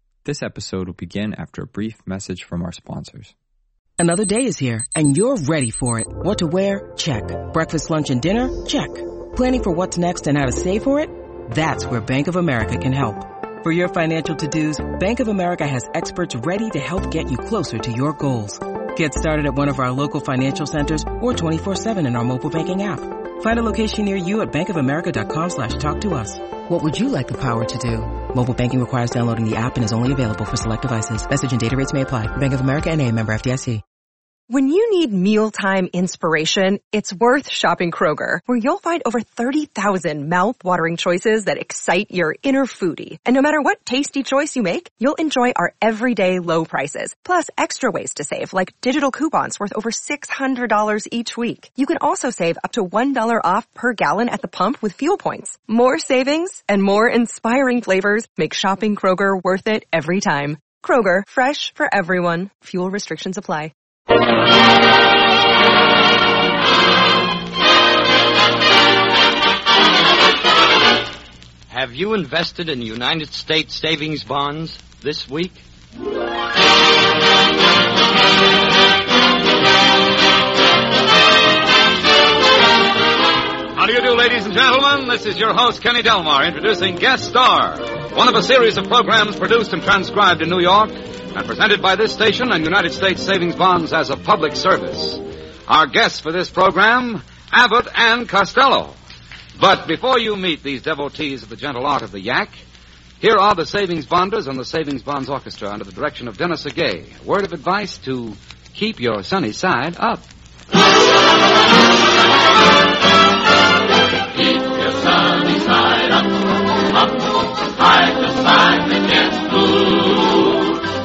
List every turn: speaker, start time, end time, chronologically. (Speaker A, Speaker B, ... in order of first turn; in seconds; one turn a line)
Speaker A: 0.2-3.3
Speaker B: 4.0-33.8
Speaker C: 34.5-63.7
Speaker D: 71.7-75.6
Speaker E: 83.8-99.0
Speaker E: 99.6-102.6
Speaker E: 103.2-110.2
Speaker D: 115.1-115.9
Speaker D: 118.0-120.6